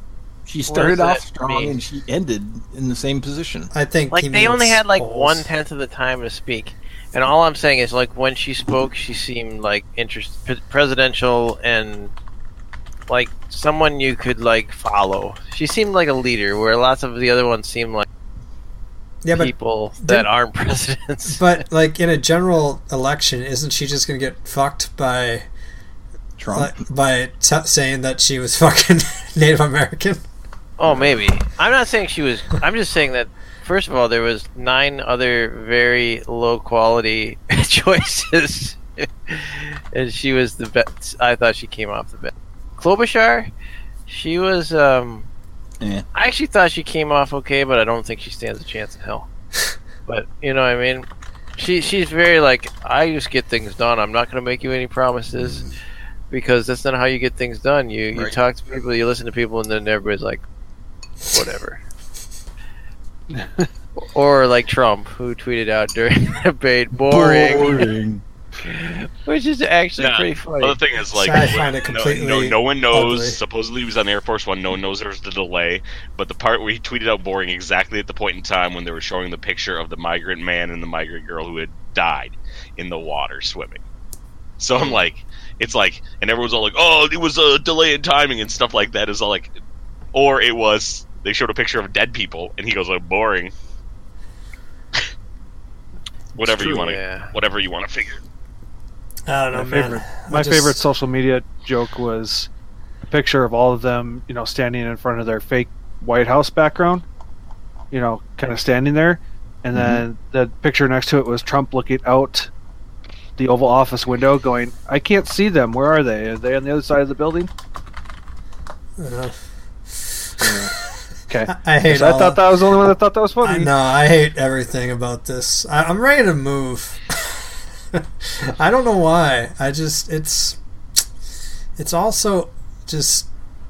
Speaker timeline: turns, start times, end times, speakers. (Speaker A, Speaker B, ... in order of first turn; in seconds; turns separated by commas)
Speaker A: 0.5-3.7, Speaker B: 0.7-1.7, Speaker C: 3.7-5.5, Speaker B: 4.1-12.1, Speaker B: 13.1-18.1, Speaker C: 19.2-20.3, Speaker B: 19.3-21.6, Speaker C: 21.3-25.4, Speaker A: 26.4-26.8, Speaker C: 26.5-30.2, Speaker B: 30.8-43.5, Speaker B: 44.1-45.3, Speaker A: 45.8-46.0, Speaker B: 46.1-49.3, Speaker B: 50.0-55.6, Speaker A: 55.4-55.7, Speaker B: 56.3-60.4, Speaker A: 58.1-58.4, Speaker B: 61.2-61.8, Speaker D: 63.3-63.7, Speaker B: 64.0-67.9, Speaker A: 67.0-68.2, Speaker B: 68.6-70.8, Speaker E: 70.0-83.8, Speaker C: 71.1-73.4, Speaker E: 84.6-89.5, Speaker B: 84.8-85.0, Speaker E: 90.1-93.5, Speaker E: 96.3-98.2, Speaker B: 96.6-97.3, Speaker C: 99.3-100.8, Speaker D: 99.5-102.5, Speaker D: 103.1-107.0, Speaker D: 107.9-112.5, Speaker A: 109.7-110.0, Speaker D: 113.4-117.5, Speaker C: 119.0-119.3, Speaker C: 119.9-120.7, Speaker D: 120.4-120.7, Speaker D: 121.3-123.7, Speaker C: 121.5-122.4, Speaker C: 123.4-130.6, Speaker C: 131.8-133.3